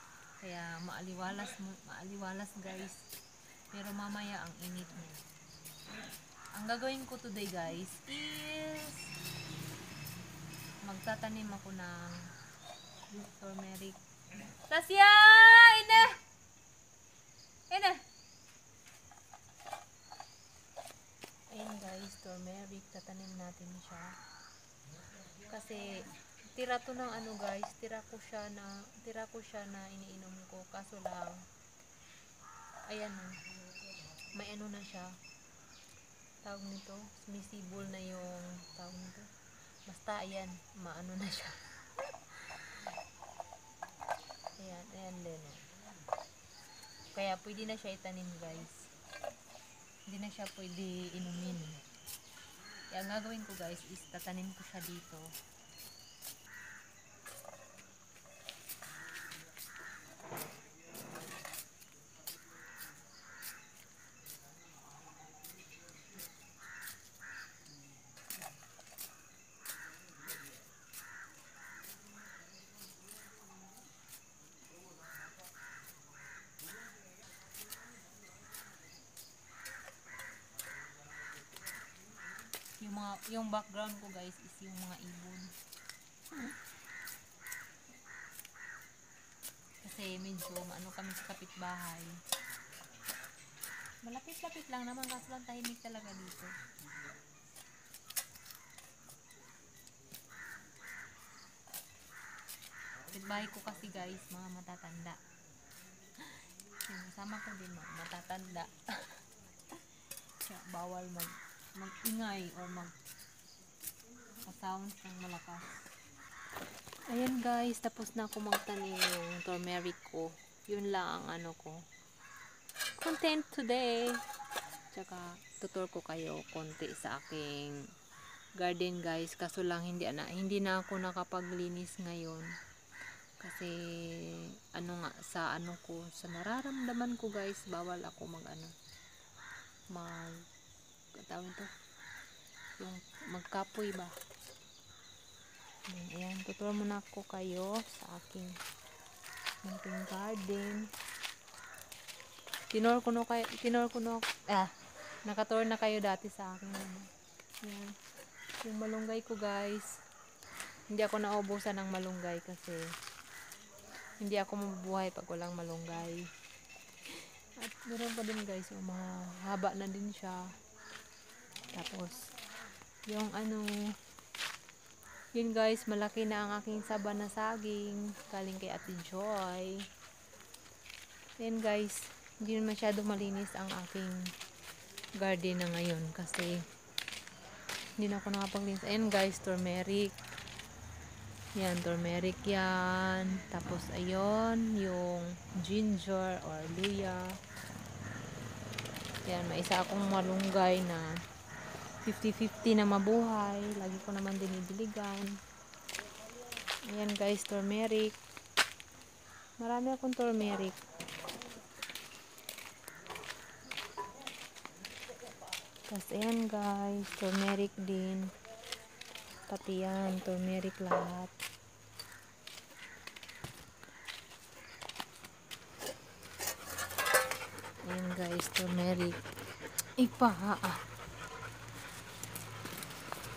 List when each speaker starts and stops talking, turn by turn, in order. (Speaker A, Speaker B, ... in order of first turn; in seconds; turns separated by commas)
Speaker A: 0.4-3.0, Speaker A: 3.7-5.2, Speaker A: 6.5-9.1, Speaker A: 10.8-12.3, Speaker A: 13.1-16.2, Speaker A: 17.7-18.0, Speaker A: 21.5-24.1, Speaker A: 25.2-31.3, Speaker A: 32.9-33.5, Speaker A: 34.1-35.2, Speaker A: 36.4-39.3, Speaker A: 39.9-42.6, Speaker A: 44.6-45.7, Speaker A: 47.1-48.9, Speaker A: 50.1-51.8, Speaker A: 52.9-55.3, Speaker A: 82.8-85.5, Speaker A: 89.8-92.2, Speaker A: 94.0-96.5, Speaker A: 103.1-105.2, Speaker A: 106.1-112.9, Speaker A: 114.3-115.8, Speaker A: 117.1-121.8, Speaker A: 123.0-124.2, Speaker A: 124.9-127.8, Speaker A: 128.6-132.5, Speaker A: 133.4-138.7, Speaker A: 139.9-140.4, Speaker A: 141.2-141.7, Speaker A: 142.8-144.2, Speaker A: 145.9-148.6, Speaker A: 149.6-150.9, Speaker A: 152.7-157.1, Speaker A: 157.6-157.9, Speaker A: 158.6-160.0, Speaker A: 160.9-162.9, Speaker A: 164.2-166.3, Speaker A: 167.0-170.5, Speaker A: 171.7-172.3, Speaker A: 173.1-173.9, Speaker A: 175.3-179.8, Speaker A: 181.4-184.3, Speaker A: 185.2-186.6, Speaker A: 188.0-190.1, Speaker A: 191.5-197.4, Speaker A: 199.2-201.1, Speaker A: 202.0-205.4, Speaker A: 206.9-208.2, Speaker A: 209.6-210.8, Speaker A: 215.9-218.3, Speaker A: 219.5-221.3, Speaker A: 227.8-229.2, Speaker A: 230.0-230.8